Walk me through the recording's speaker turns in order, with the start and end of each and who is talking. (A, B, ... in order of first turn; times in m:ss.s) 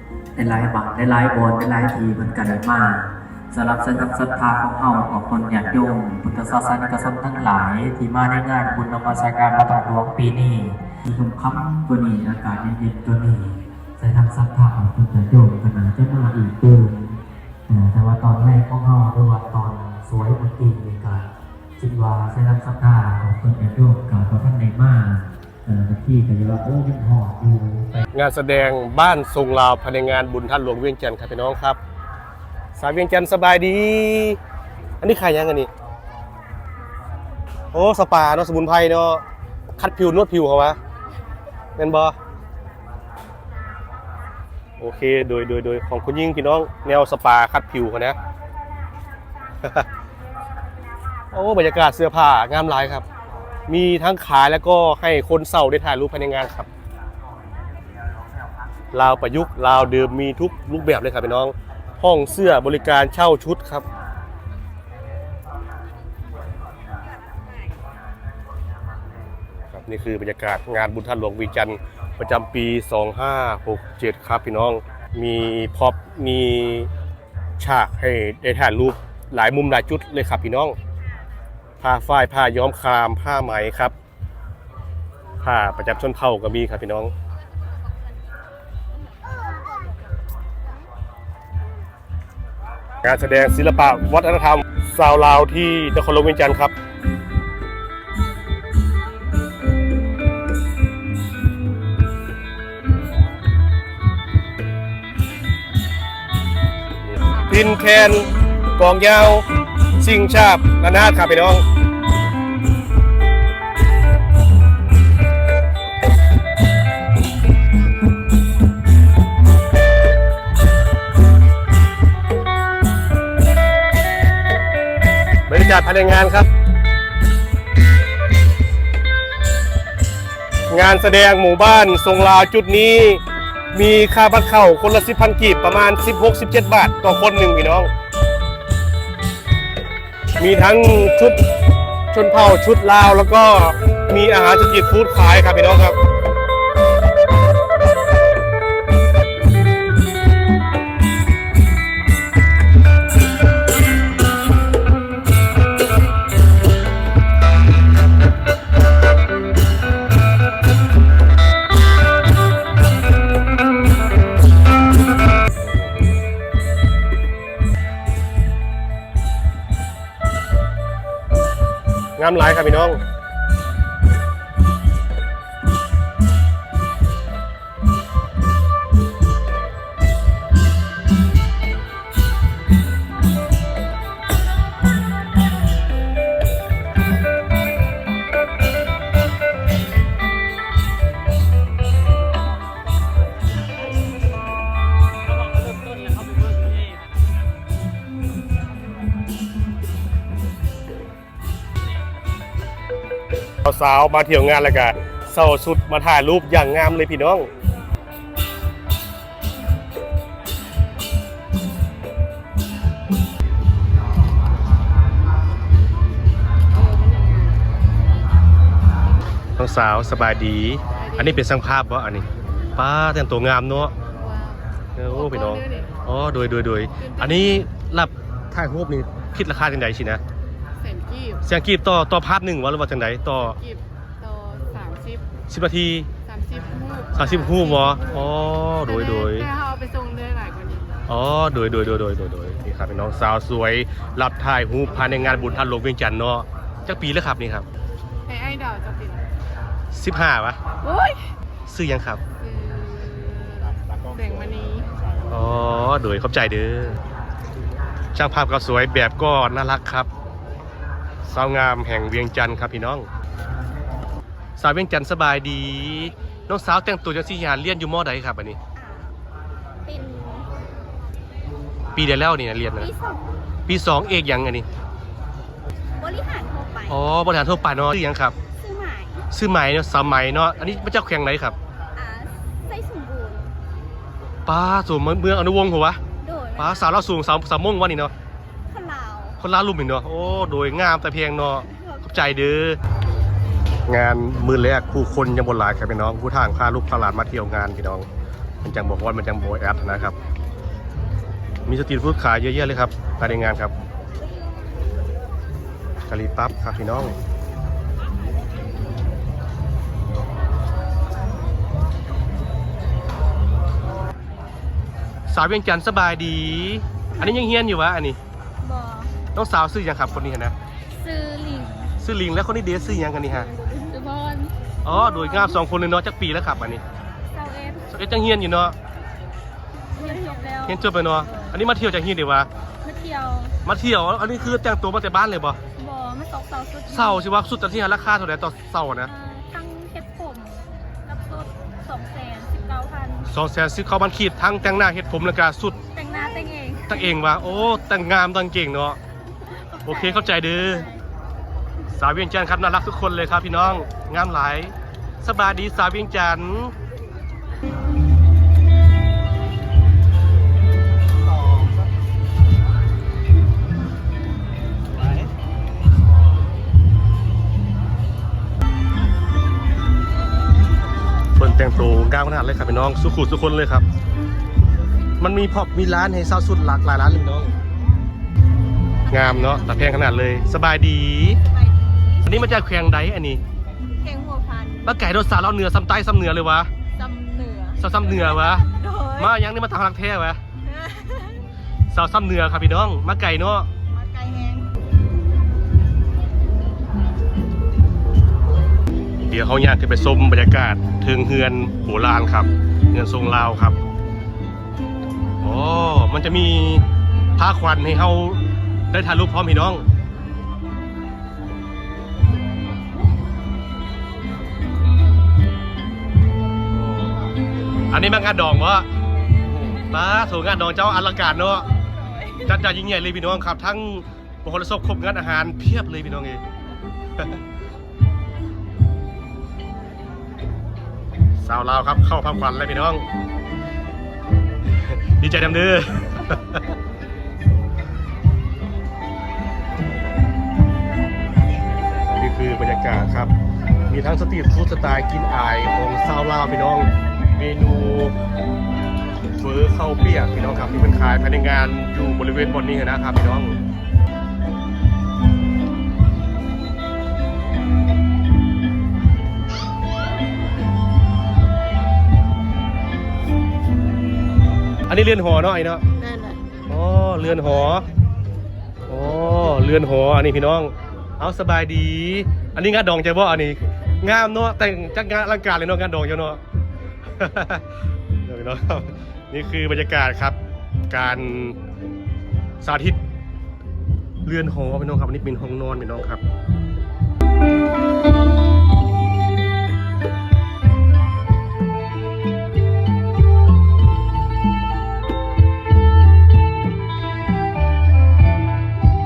0:00.4-0:28.0 A
0:28.1-0:31.8 B
0:32.8-0:34.4 B
0:35.0-0:35.7 B
0:37.7-0:39.2 B
0:39.8-0:40.8 B
0:41.8-0:42.2 B
0:44.8-0:48.2 B
0:51.3-0:53.0 B
0:53.7-0:56.7 B
0:58.9-1:03.8 B
1:09.7-1:16.9 B
1:17.6-1:20.8 B
1:21.8-1:23.9 B
1:25.4-1:27.1 B
1:33.0-1:36.7 B
1:47.0-1:49.4 B
1:50.0-1:51.6 B
2:05.5-2:06.5 B
2:10.7-2:13.2 B
2:13.7-2:17.9 B
2:20.4-2:21.4 B
2:22.1-2:26.0 B
2:52.2-2:53.0 B
3:23.6-3:27.5 B
3:36.8-3:37.5 C
3:39.6-3:44.0 B
3:41.0-3:41.5 D
3:44.0-3:45.9 D
3:45.0-3:50.2 B
3:47.0-3:47.6 D
3:50.8-3:51.4 D
3:51.4-3:53.6 B
3:53.6-3:55.2 D
3:55.5-3:56.1 B
3:56.2-4:01.0 D
3:57.2-3:59.5 B
4:01.1-4:07.7 B
4:08.3-4:09.3 D
4:09.9-4:10.6 B
4:10.8-4:11.3 D
4:11.7-4:12.2 B
4:12.4-4:14.9 D
4:15.3-4:17.0 B
4:18.2-4:20.1 B
4:21.3-4:23.1 B
4:24.6-4:28.6 B
4:28.8-4:29.1 C
4:29.9-4:30.5 C
4:32.0-4:32.9 B
4:32.8-4:33.4 C
4:33.7-4:34.7 B
4:36.0-4:37.0 C
4:36.9-4:38.4 B
4:38.6-4:39.2 C
4:39.3-4:41.6 B
4:42.0-4:43.5 C
4:44.5-4:46.0 B
4:46.2-4:47.0 C
4:46.6-4:48.1 B
4:48.7-4:49.4 C
4:49.4-4:52.8 B
4:51.7-4:52.0 C
4:53.9-4:58.1 B
4:58.6-5:00.2 B
5:01.7-5:03.7 B
5:06.1-5:07.2 B
5:15.3-5:18.2 B
5:18.6-5:19.1 C
5:19.3-5:20.5 B
5:21.0-5:21.9 C
5:22.0-5:23.5 B
5:23.4-5:25.6 C
5:24.8-5:26.8 B
5:27.3-5:27.9 C
5:27.9-5:28.8 B
5:29.9-5:31.6 C
5:30.7-5:32.5 B
5:32.8-5:33.6 C
5:33.6-5:35.6 B
5:35.8-5:37.3 C
5:36.9-5:39.1 B
5:39.1-5:43.3 C
5:43.3-5:45.8 B
5:45.9-5:47.0 C
5:46.9-5:49.0 B
5:49.7-5:51.0 C
5:49.9-5:50.8 B
5:51.9-5:56.7 B
6:11.4-6:13.8 B
6:15.2-6:17.5 B
6:19.0-6:19.9 C
6:19.1-6:21.4 B
6:21.5-6:22.2 C
6:22.2-6:23.4 B
6:24.0-6:24.9 C
6:24.8-6:26.7 B
6:26.9-6:29.3 C
6:27.8-6:28.6 B
6:29.2-6:30.4 B
6:30.6-6:31.4 C
6:31.9-6:33.7 B
6:33.9-6:34.7 C
6:39.3-6:43.8 B
6:45.4-6:46.8 B
6:47.4-6:49.8 B
6:56.7-6:57.2 B
6:57.9-6:58.9 B
6:59.6-7:01.7 B
7:02.2-7:02.4 C
7:02.4-7:06.4 B
7:11.4-7:13.1 B
7:14.8-7:16.6 B
7:22.1-7:23.3 B
7:23.9-7:28.2 B
7:29.4-7:33.6 B
7:44.9-7:45.8 B
7:46.0-7:46.4 C
7:46.7-7:47.9 B
7:48.9-7:56.4 B
7:57.2-7:57.6 B
7:58.2-8:00.4 B
8:00.9-8:01.6 B
8:02.6-8:03.0 B
8:04.3-8:06.2 B